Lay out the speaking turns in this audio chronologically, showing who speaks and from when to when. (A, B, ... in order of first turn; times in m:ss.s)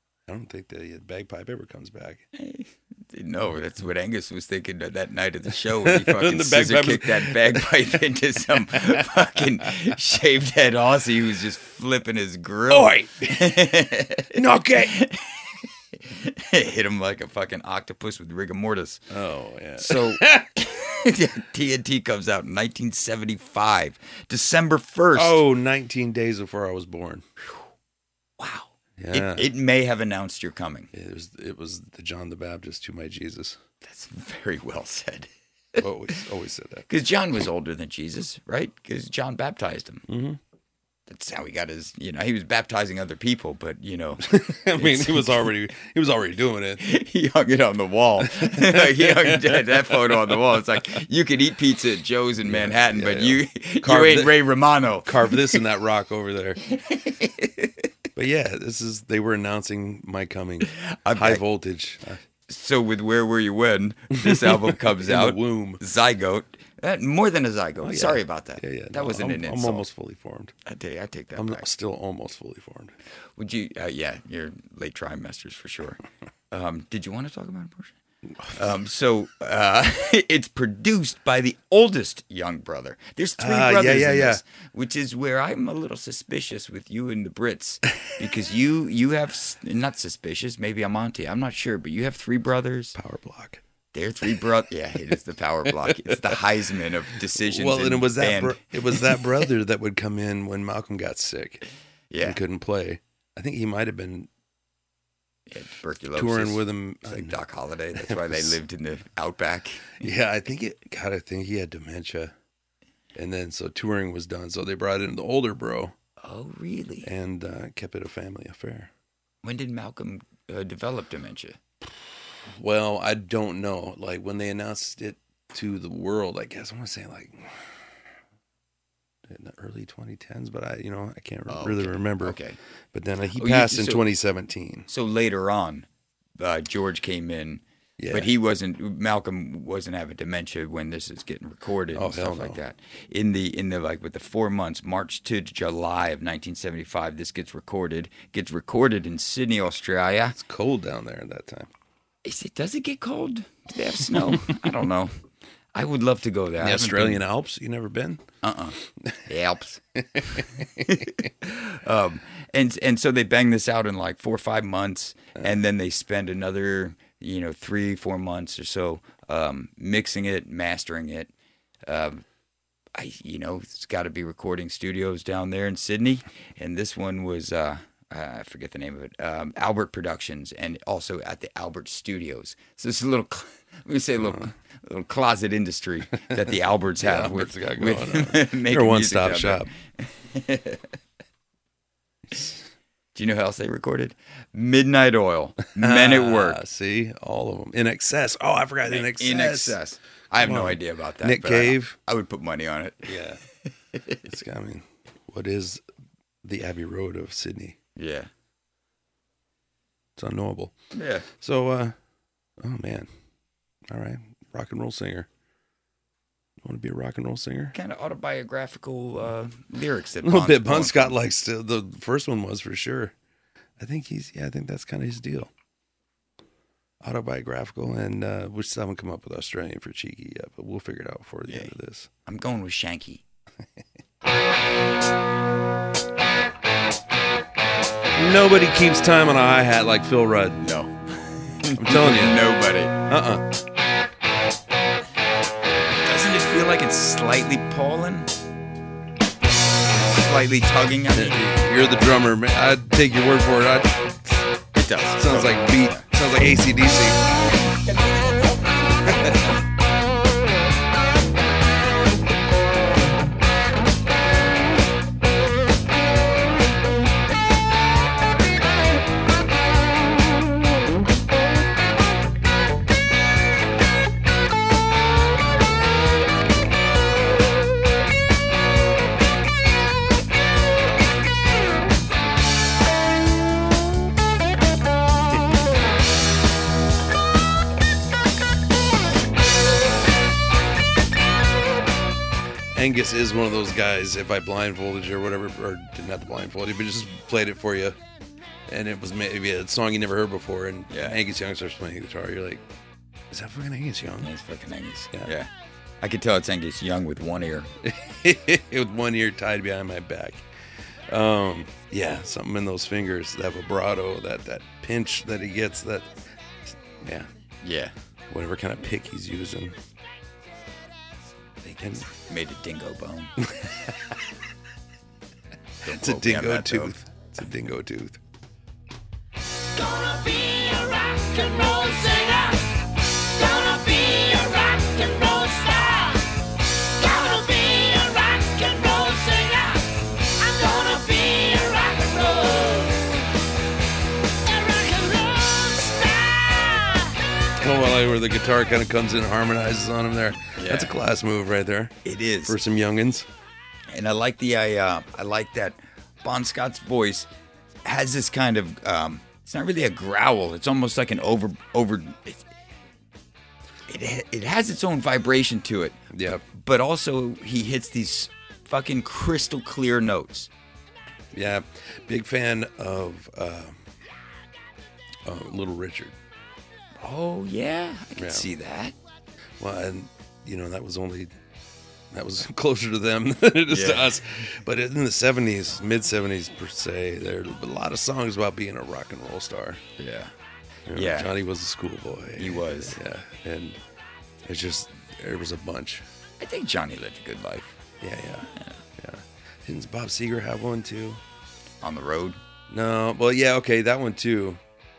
0:00.3-0:02.2 A
0:02.4-0:19.0 B
0:05.8-0:07.8 A
0:08.7-0:09.1 A
0:09.6-0:09.9 A
0:12.7-0:13.5 A
0:14.3-0:15.0 A
0:19.1-0:20.5 A
0:19.8-0:25.4 B
0:25.1-0:27.2 A
0:28.4-0:30.9 B
0:29.0-0:29.5 A
0:30.9-0:33.6 A
0:33.8-0:35.8 B
0:35.8-0:36.9 A
0:36.9-0:40.0 B
0:40.1-0:40.4 A
0:41.1-0:45.5 B
0:44.2-0:46.8 A
0:46.8-0:55.6 B
0:48.2-0:50.4 A
0:52.4-0:54.4 A
0:55.0-0:56.6 A
0:56.6-0:57.9 B
0:58.2-1:02.2 A
1:00.7-1:01.4 B
1:02.5-1:09.9 B
1:04.2-1:05.8 A
1:07.8-1:10.5 A
1:10.6-1:11.7 B
1:11.3-1:12.9 A
1:13.4-1:18.0 B
1:18.5-1:33.0 B
1:23.4-1:24.4 A
1:33.0-1:33.6 A
1:33.9-1:39.4 B
1:35.7-1:36.4 A
1:37.3-1:41.6 A
1:42.1-1:42.4 B
1:42.2-1:44.3 A
1:45.5-1:50.1 B
1:46.2-1:47.4 A
1:48.0-1:48.6 A
1:50.0-1:52.4 A
1:53.2-1:56.0 A
1:56.2-1:57.1 B
1:57.0-1:58.9 A
1:59.4-2:01.6 B
2:02.5-2:07.8 A
2:09.3-2:12.4 A
2:11.5-2:12.6 B
2:12.9-2:14.9 A
2:13.3-2:14.1 B
2:14.9-2:15.9 B
2:16.4-2:30.4 B
2:18.0-2:18.3 A
2:21.9-2:22.6 A
2:30.4-2:31.7 A
2:32.2-2:35.1 B
2:35.8-2:37.2 B
2:36.6-2:38.2 A
2:38.4-2:51.3 B
2:40.0-2:41.3 A
2:51.8-2:52.2 B
2:53.0-3:11.0 B
3:04.2-3:04.5 A
3:06.3-3:09.7 A
3:12.3-3:12.6 A
3:13.2-3:16.6 B
3:15.8-3:19.8 A
3:18.9-3:23.2 B
3:20.4-3:22.0 A
3:23.1-3:23.4 A
3:23.9-3:24.2 B
3:24.2-3:25.8 A
3:26.4-3:27.8 A
3:28.0-3:28.3 B
3:30.2-3:30.8 A
3:30.9-3:31.3 B
3:31.3-3:32.0 A
3:32.6-3:33.1 A
3:33.9-3:35.3 A
3:36.6-3:37.8 A
3:37.8-3:41.2 B
3:40.2-3:43.1 A
3:43.8-3:45.5 A
3:47.0-3:52.1 A
3:51.5-3:51.7 B
3:52.3-3:53.2 B
3:58.2-4:00.6 A
4:00.6-4:03.0 B
4:01.8-4:02.4 A
4:03.1-4:03.5 A
4:06.0-4:08.3 B
4:10.0-4:11.4 B
4:11.1-4:14.4 A
4:14.8-4:16.0 B
4:15.2-4:17.2 A
4:19.0-4:19.5 B
4:19.1-4:19.4 A
4:52.7-4:58.0 A
4:58.7-5:02.6 A
5:00.9-5:01.2 B
5:03.3-5:04.3 A
5:04.2-5:05.5 B
5:06.0-5:07.7 B
5:07.8-5:16.1 A
5:16.6-5:17.3 A
5:17.6-5:17.9 B
5:18.3-5:19.8 A
5:21.6-5:22.1 A
5:22.1-5:23.4 B
5:23.4-5:23.9 A
5:25.8-5:27.0 B
5:25.9-5:28.2 A
5:29.7-5:43.3 C
5:44.4-5:47.3 C
5:47.6-5:53.3 A
5:50.6-5:50.9 B
5:52.0-5:52.6 B
5:53.9-5:57.3 B
5:57.8-6:02.5 B
6:03.9-6:10.5 B
6:06.1-6:06.4 A
6:11.3-6:13.8 A
6:15.2-6:16.2 A
6:17.0-6:18.9 B
6:18.2-6:18.5 A
6:19.6-6:21.3 A
6:22.1-6:29.8 A
6:23.7-6:24.2 B
6:30.0-6:30.3 B
6:30.9-6:33.8 A
6:30.9-6:31.3 B
6:32.4-6:33.0 B
6:34.4-6:36.0 A
6:36.4-6:37.8 B
6:38.0-6:41.2 A
6:41.8-6:42.4 B
6:42.7-6:44.6 A